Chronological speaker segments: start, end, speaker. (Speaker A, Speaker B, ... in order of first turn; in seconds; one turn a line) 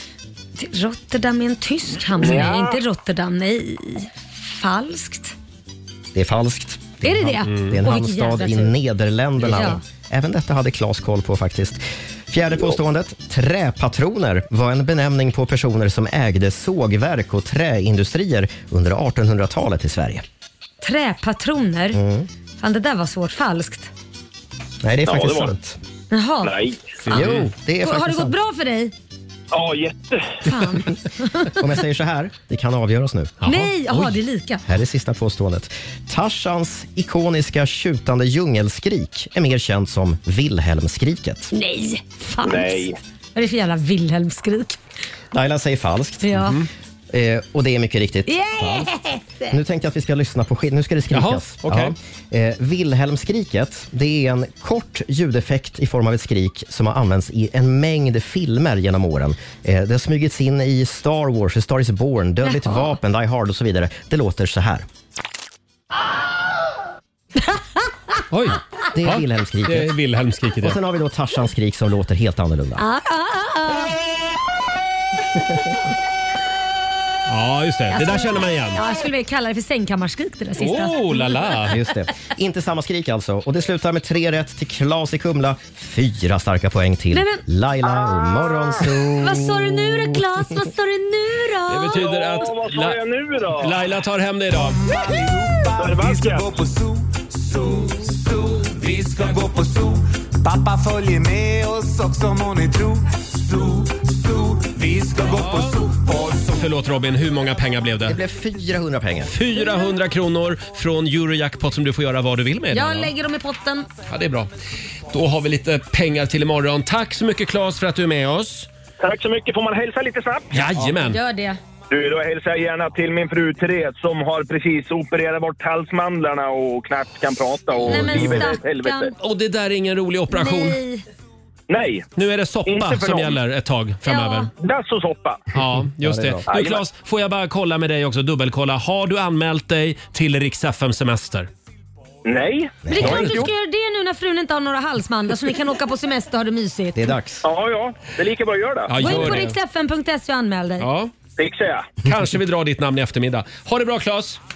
Speaker A: 0.6-5.3
Speaker B: 2.1-2.8
Speaker C: 6.1-20.2
Speaker A: 7.0-8.8
Speaker A: 9.5-9.8
Speaker A: 20.8-22.0
Speaker C: 21.9-22.3
Speaker A: 22.6-23.9
Speaker C: 24.8-25.8
Speaker B: 25.1-25.5
Speaker A: 26.1-26.6
Speaker B: 26.4-26.9
Speaker D: 27.1-27.5
Speaker C: 27.1-28.4
Speaker A: 27.8-28.9
Speaker B: 29.5-30.4
Speaker A: 30.4-31.6
Speaker C: 31.5-33.4
Speaker D: 33.4-34.1
Speaker A: 33.4-34.6
Speaker C: 34.7-41.5
Speaker A: 41.5-44.8
Speaker B: 42.4-43.0
Speaker C: 45.3-46.5
Speaker A: 46.2-46.6
Speaker D: 46.4-46.7
Speaker C: 47.1-48.9
Speaker A: 48.3-49.5
Speaker C: 49.5-64.9
Speaker D: 51.1-52.0
Speaker A: 62.4-63.0
Speaker D: 68.3-70.8
Speaker C: 68.9-69.9
Speaker C: 70.6-72.8
Speaker A: 72.8-74.0
Speaker D: 77.3-78.8
Speaker A: 77.9-81.6
Speaker D: 80.6-81.8
Speaker C: 81.6-90.2
Speaker A: 87.1-87.4
Speaker B: 87.9-88.8
Speaker A: 89.2-92.0
Speaker D: 91.7-93.0
Speaker B: 91.9-93.8
Speaker D: 93.5-94.8
Speaker E: 94.5-106.7
Speaker B: 95.8-96.6
Speaker D: 105.3-105.8
Speaker D: 106.5-108.2
Speaker C: 108.0-109.3
Speaker D: 109.3-113.1
Speaker A: 109.6-109.8
Speaker A: 112.7-113.9
Speaker D: 114.1-114.5
Speaker D: 115.1-118.7
Speaker B: 119.0-120.5
Speaker D: 120.5-121.2
Speaker A: 121.0-121.6
Speaker B: 121.9-129.1
Speaker A: 127.9-129.1
Speaker C: 128.1-128.4
Speaker D: 129.2-130.8
Speaker A: 130.3-131.0
Speaker B: 131.7-132.1
Speaker D: 132.2-134.5
Speaker B: 132.7-133.4
Speaker A: 134.1-134.5
Speaker B: 134.6-135.5
Speaker D: 135.5-141.5
Speaker C: 136.0-136.4
Speaker B: 136.5-136.8
Speaker B: 142.2-143.5
Speaker C: 142.8-143.2
Speaker A: 142.9-147.2
Speaker D: 143.0-143.5
Speaker C: 146.9-147.5
Speaker B: 147.4-148.9
Speaker D: 148.9-149.5
Speaker A: 149.0-150.9
Speaker D: 150.8-151.2
Speaker B: 151.4-152.0
Speaker D: 152.0-154.4